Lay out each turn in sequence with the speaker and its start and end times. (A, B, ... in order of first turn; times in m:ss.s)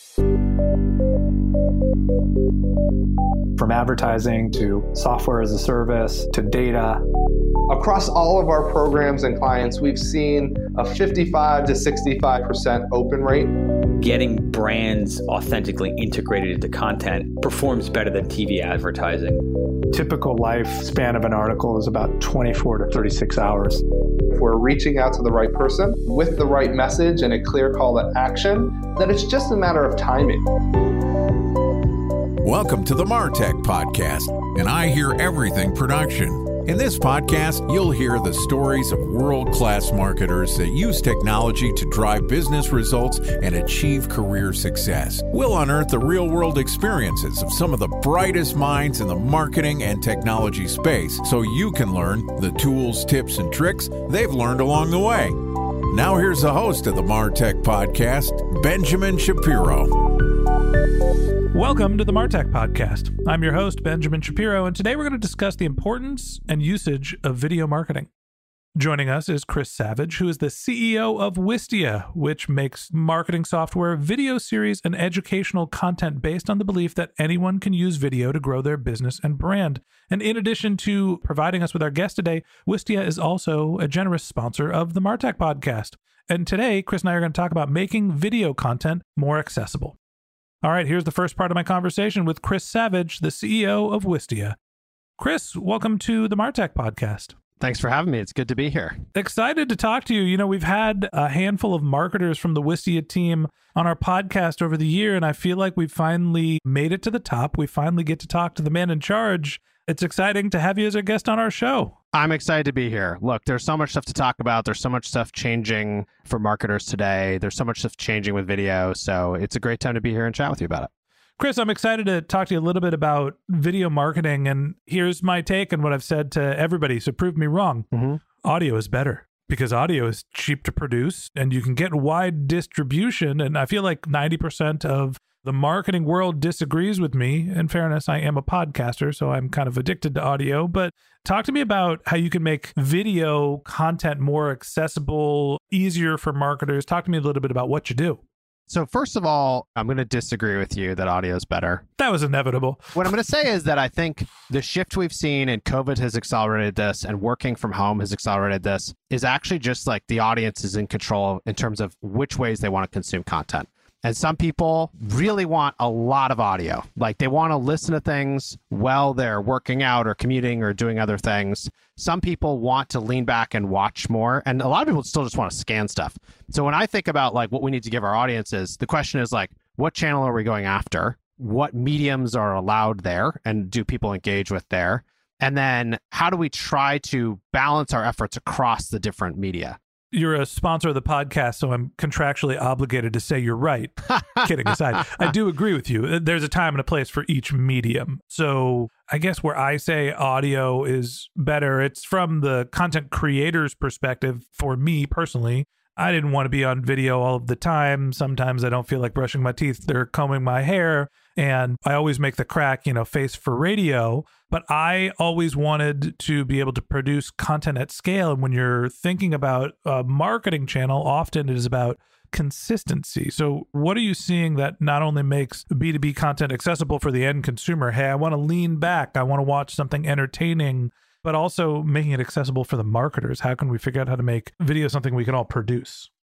0:03.6-0:07.0 A
0:07.7-0:13.5 B
0:14.0-0:19.4 C
0:19.9-0:23.8 A
0:24.3-0:30.4 B
0:32.4-0:55.3 D
0:55.9-0:59.9 D
1:01.6-1:08.1 E
1:08.8-1:30.0 E
1:30.6-1:34.6 E
1:35.2-1:37.3 E
1:37.6-1:39.0 F
1:39.1-1:52.0 E
1:52.1-2:00.9 F
2:01.4-2:07.9 E
2:07.9-2:08.2 F
2:08.4-2:28.2 E
2:28.7-2:31.8 F
2:32.0-2:33.1 E
2:32.9-3:09.8 F
3:10.1-3:56.1 E